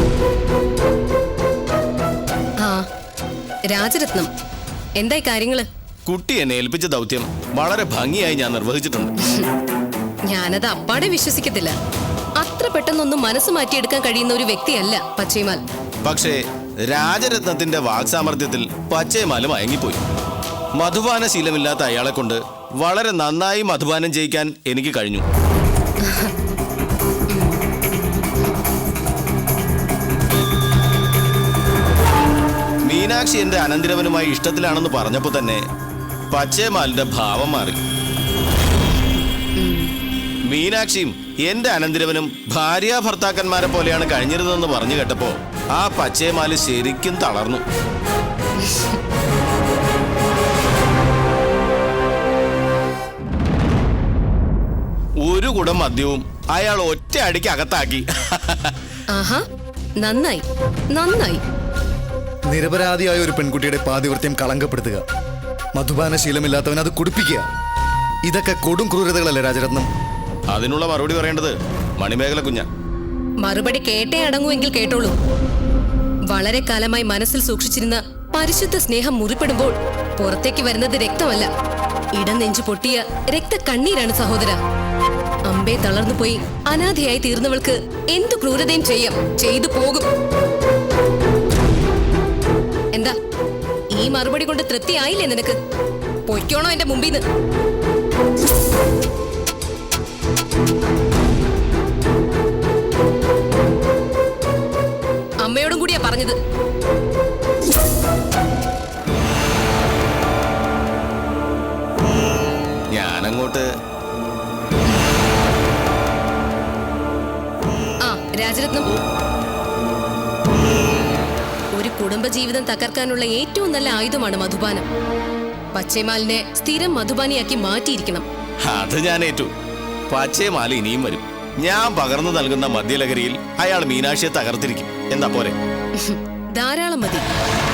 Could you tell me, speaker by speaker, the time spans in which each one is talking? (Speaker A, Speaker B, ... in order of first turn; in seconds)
Speaker A: 3.7-4.3, 5.0-5.6, 10.3-11.7, 12.4-15.6, 27.3-27.6, 39.6-39.9, 48.6-49.0, 59.1-59.4, 60.0-61.4, 73.4-75.1, 76.3-81.5, 82.2-84.6, 85.5-90.1, 94.0-95.5, 96.3-97.2, 105.4-106.3, 118.0-118.9, 121.7-124.9, 125.8-128.2, 136.0-137.2
Speaker B: 6.1-9.1, 16.0-20.0, 20.8-25.2, 32.9-35.6, 36.3-37.8, 40.5-47.6, 55.2-58.7, 70.5-72.7, 112.9-113.6, 128.7-129.5, 130.1-135.6
Speaker C: 62.5-65.0, 65.7-67.5, 68.2-69.9